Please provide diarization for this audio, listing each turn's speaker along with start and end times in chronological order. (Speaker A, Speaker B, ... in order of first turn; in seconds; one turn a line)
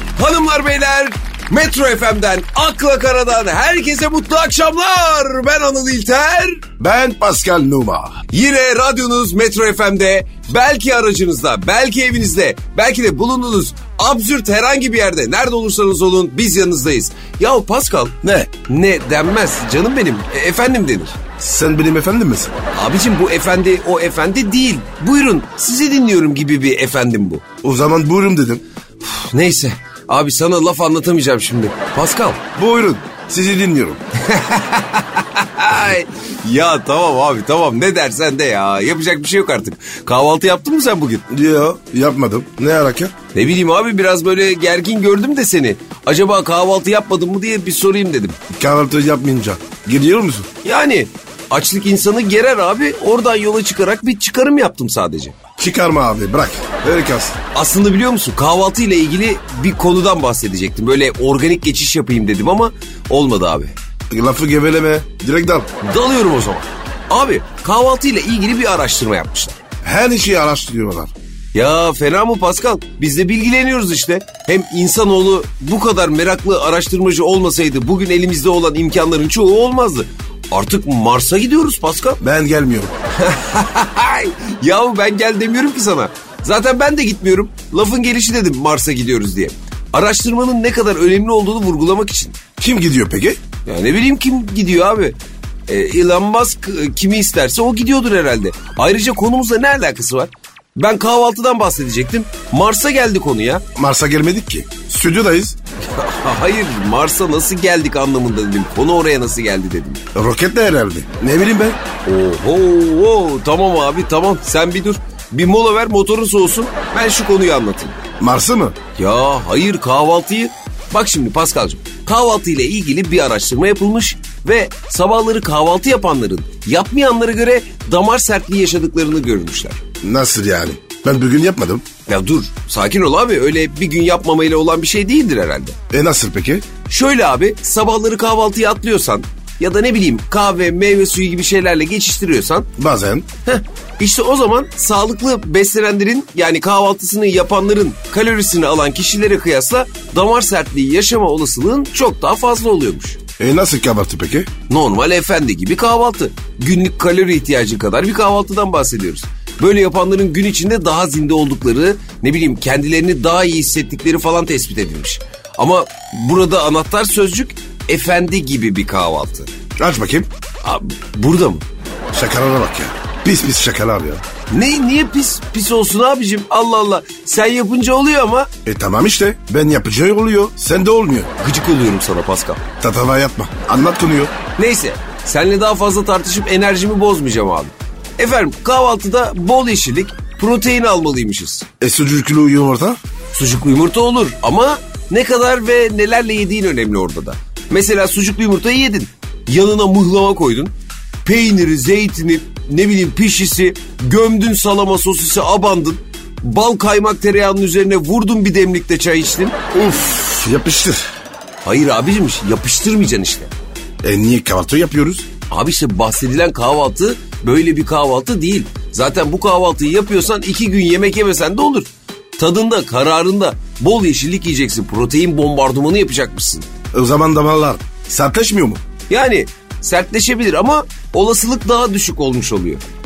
Speaker A: 0.1-6.6
Speaker B: 6.8-8.2
Speaker A: 8.3-21.2
Speaker B: 18.2-18.5
Speaker B: 21.4-22.5
Speaker A: 22.7-27.4
Speaker B: 27.6-28.6
Speaker A: 29.0-32.4
Speaker B: 32.5-34.0
Speaker A: 34.1-41.2
Speaker B: 41.3-43.1
Speaker A: 43.3-48.4
Speaker B: 48.5-50.5
Speaker A: 50.6-55.4
Speaker B: 55.6-57.4
Speaker A: 57.5-63.7
Speaker B: 64.1-65.7
Speaker A: 65.8-69.6
Speaker B: 69.8-71.1
Speaker A: 71.5-82.2
Speaker B: 82.2-82.9
Speaker A: 83.2-92.4
Speaker B: 92.6-93.4
Speaker A: 93.7-103.6
Speaker B: 103.7-105.5
Speaker A: 105.8-110.0
Speaker B: 110.1-111.8
Speaker A: 112.0-118.0
Speaker B: 118.2-118.8
Speaker A: 119.0-129.8
Speaker B: 130.0-131.8
Speaker A: 132.1-135.8
Speaker B: 135.9-136.7
Speaker A: 136.9-142.7
Speaker B: 142.8-143.3
Speaker A: 143.4-153.2
Speaker B: 153.4-154.5
Speaker A: 154.7-169.5
Speaker B: 169.8-170.3
Speaker A: 170.6-171.6
Speaker B: 172.1-174.2
Speaker A: 174.5-178.5
Speaker B: 178.6-181.3
Speaker A: 181.4-182.6
Speaker B: 182.8-184.3
Speaker A: 184.6-191.7
Speaker B: 191.8-193.0
Speaker A: 193.3-200.7
Speaker A: 201.2-209.6
Speaker B: 209.7-211.1
Speaker A: 211.6-213.5
Speaker B: 214.0-215.3
Speaker A: 215.5-226.7
Speaker B: 226.9-228.8
Speaker A: 229.1-232.8